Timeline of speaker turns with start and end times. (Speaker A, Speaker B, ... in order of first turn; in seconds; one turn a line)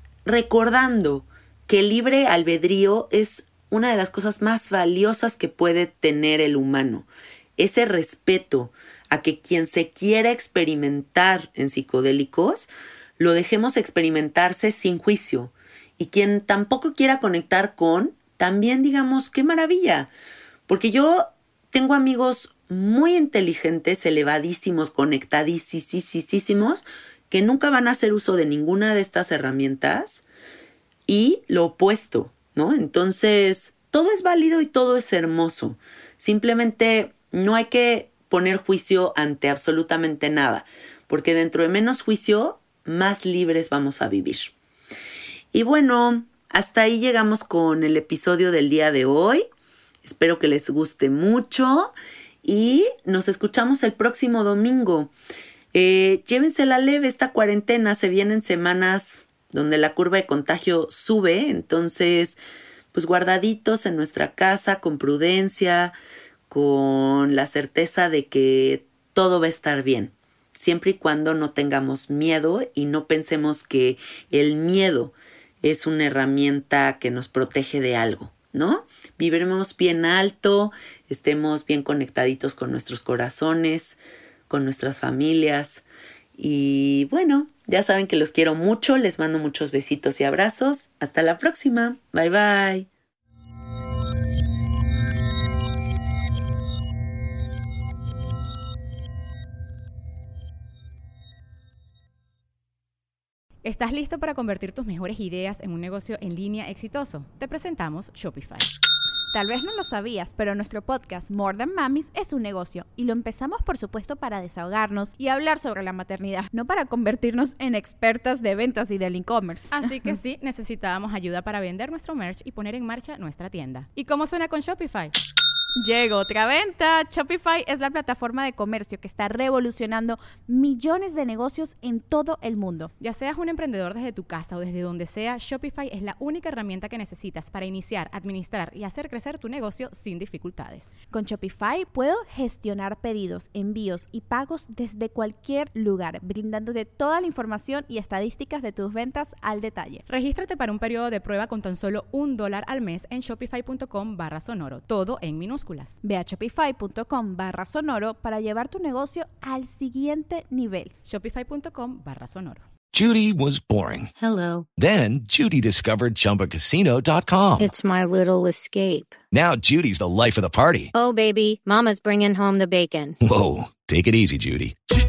Speaker A: 0.2-7.1
Speaker A: 7.6-20.1
Speaker A: 20.7-30.2
Speaker A: 31.1-44.5
Speaker A: 45.5-49.4
Speaker A: 50.0-51.9
Speaker A: 52.4-55.1
Speaker A: 55.7-62.4
Speaker A: 62.9-65.9
Speaker A: 66.5-84.0
Speaker A: 84.5-85.8
Speaker A: 86.3-92.9
Speaker B: 103.6-108.7
Speaker C: 109.3-120.1
Speaker B: 119.7-125.1
Speaker C: 125.8-132.9
Speaker B: 133.0-140.9
Speaker C: 141.1-150.0
Speaker B: 150.1-156.0
Speaker C: 156.0-160.9
Speaker B: 161.0-162.7
Speaker D: 162.9-164.1
Speaker E: 164.2-164.7
Speaker D: 164.8-167.7
Speaker E: 167.6-169.2
Speaker D: 169.3-170.9
Speaker E: 170.9-173.2
Speaker D: 173.2-174.8